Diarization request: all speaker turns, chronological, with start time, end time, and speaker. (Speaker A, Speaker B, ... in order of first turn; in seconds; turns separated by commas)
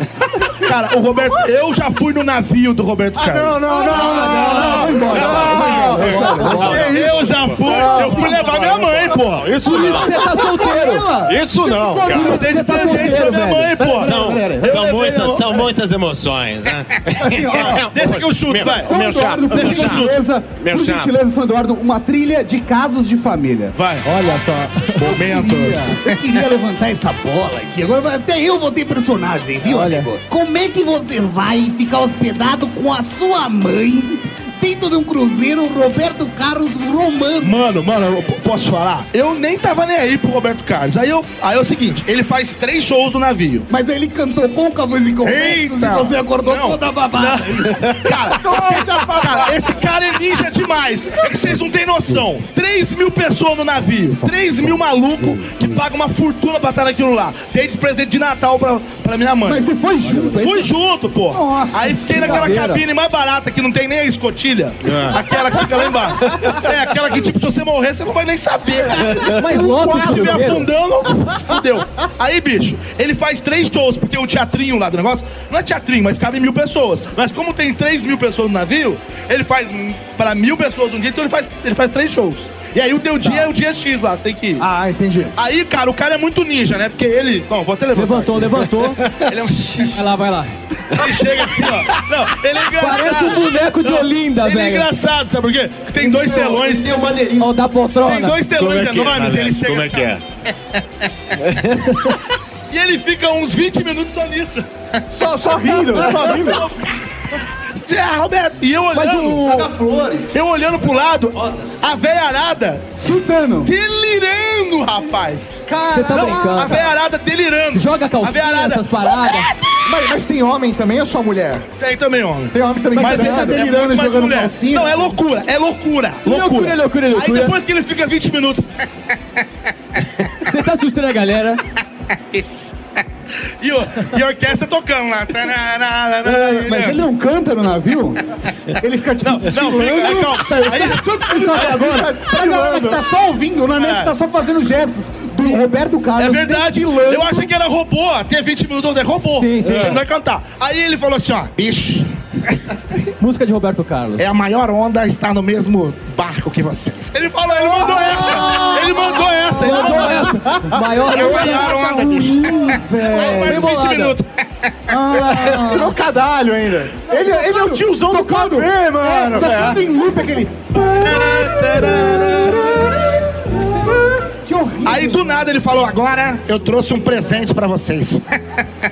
Speaker A: 0.6-3.6, Speaker B: 3.1-5.1, Speaker C: 3.7-6.9, Speaker D: 3.8-6.7, Speaker E: 5.3-7.6, Speaker B: 5.6-8.3, Speaker A: 6.6-9.5, Speaker C: 7.7-8.3, Speaker E: 8.4-10.2, Speaker D: 9.6-11.1, Speaker C: 9.7-14.7, Speaker E: 11.2-12.4, Speaker D: 12.2-13.9, Speaker A: 12.2-15.7, Speaker E: 14.0-21.1, Speaker C: 17.2-17.9, Speaker A: 17.5-18.9, Speaker C: 18.7-23.7, Speaker A: 19.5-20.2, Speaker A: 23.8-24.0, Speaker D: 24.0-25.1, Speaker A: 25.0-26.2, Speaker C: 25.0-37.6, Speaker D: 29.6-30.1, Speaker A: 37.4-43.7, Speaker C: 43.7-49.7, Speaker A: 45.2-59.6, Speaker C: 54.2-55.8, Speaker C: 59.4-60.7, Speaker A: 60.3-84.6, Speaker C: 61.3-62.6, Speaker D: 62.2-62.8, Speaker E: 64.8-65.2, Speaker D: 69.3-70.7, Speaker B: 84.6-85.3, Speaker A: 85.4-88.6, Speaker D: 87.9-89.0, Speaker A: 89.2-90.0, Speaker F: 89.5-90.0, Speaker D: 89.9-90.5, Speaker A: 90.9-96.9, Speaker D: 92.8-94.9, Speaker F: 96.0-97.6, Speaker D: 97.4-98.4, Speaker A: 98.0-100.1, Speaker E: 98.5-100.2, Speaker E: 101.4-101.9, Speaker A: 102.7-105.0, Speaker B: 105.1-106.6, Speaker A: 105.9-106.9, Speaker A: 107.8-109.6, Speaker D: 108.9-109.7, Speaker F: 109.4-110.4, Speaker A: 110.3-112.9, Speaker F: 111.5-111.7, Speaker C: 112.9-113.7, Speaker A: 113.6-119.3, Speaker B: 115.7-116.7, Speaker D: 115.9-116.8, Speaker D: 117.7-119.5, Speaker B: 119.8-121.7, Speaker A: 121.8-128.7, Speaker B: 122.5-123.6, Speaker C: 122.9-125.1, Speaker D: 126.2-127.5, Speaker D: 130.4-131.6, Speaker A: 132.3-132.7, Speaker A: 133.6-137.0, Speaker C: 136.2-138.2, Speaker C: 138.8-147.5, Speaker A: 139.2-142.0, Speaker B: 141.3-143.0, Speaker A: 143.8-144.1, Speaker A: 146.2-152.1, Speaker D: 149.3-150.0, Speaker E: 149.7-150.0, Speaker D: 153.2-154.3, Speaker A: 154.2-160.4, Speaker C: 157.5-163.7, Speaker D: 159.6-161.7, Speaker A: 161.0-164.7, Speaker D: 163.4-164.2, Speaker C: 164.9-166.0, Speaker B: 165.5-169.8, Speaker C: 167.1-173.8, Speaker A: 170.8-172.8, Speaker C: 174.4-175.5, Speaker A: 174.8-178.2